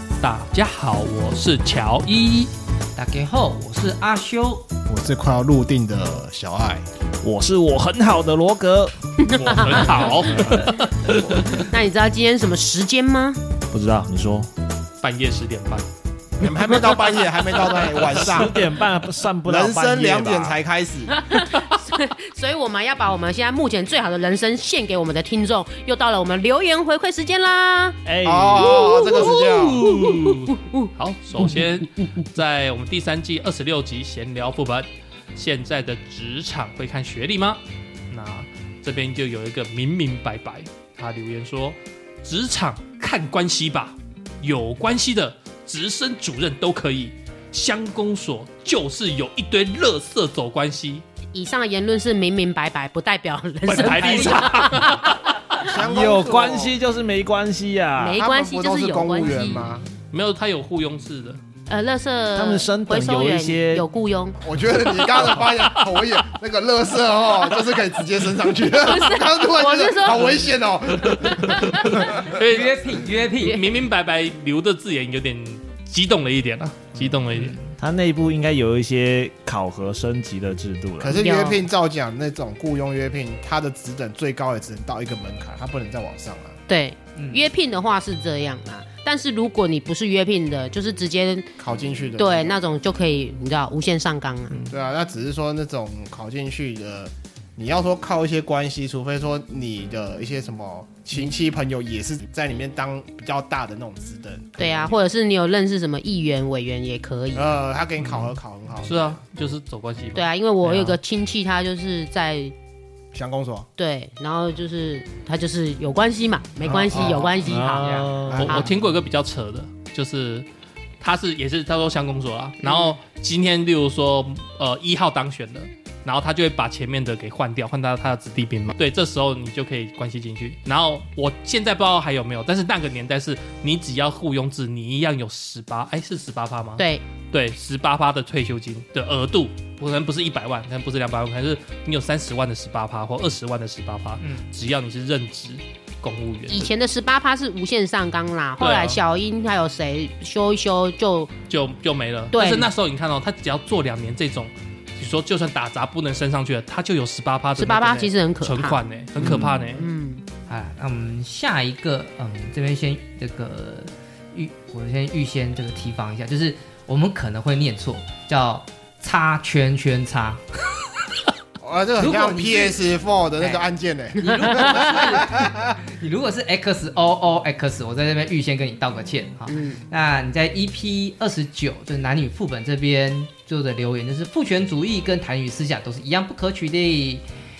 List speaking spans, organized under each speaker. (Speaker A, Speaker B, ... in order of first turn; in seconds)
Speaker A: 0.2-2.5, 9.5-10.5, 15.0-15.8, 30.3-51.0, 53.7-55.1, 60.1-61.4, 72.1-77.6, 108.8-110.3, 118.3-120.5, 121.0-146.7, 148.6-149.0, 151.5-159.8
Speaker B: 2.9-4.6, 53.7-54.5, 71.9-73.7, 77.3-77.7, 87.2-87.4, 116.9-117.3, 117.8-118.2, 144.2-144.4, 159.2-159.6, 160.5-170.4, 172.0-172.8, 174.2-187.2
Speaker C: 4.8-6.9, 9.3-10.7, 16.4-18.7, 19.4-21.2, 28.2-29.9, 55.6-56.8, 58.1-59.9, 64.4-72.3, 81.0-86.6, 91.6-92.6, 94.7-105.0, 107.3-109.2, 113.1-113.7, 116.7-117.5, 118.2-118.8, 171.6-175.7
Speaker D: 7.2-8.9, 10.3-11.6, 13.7-14.5, 18.1-20.6, 28.0-28.8, 29.8-30.3, 55.8-58.2, 62.3-63.9, 77.8-81.1, 117.5-118.6, 159.2-159.5
Speaker E: 9.2-10.5, 11.5-13.4, 21.1-28.0, 28.6-31.5, 51.3-55.2, 58.0-59.6, 61.7-64.4, 68.7-70.4, 71.4-71.9, 81.0-81.6, 86.7-91.5, 92.2-94.6, 104.6-107.5, 110.1-112.5, 113.8-118.7, 122.6-123.0, 136.8-137.0, 146.5-151.3, 152.3-152.7, 157.6-158.8, 159.6-160.2, 174.3-174.9, 179.4-179.8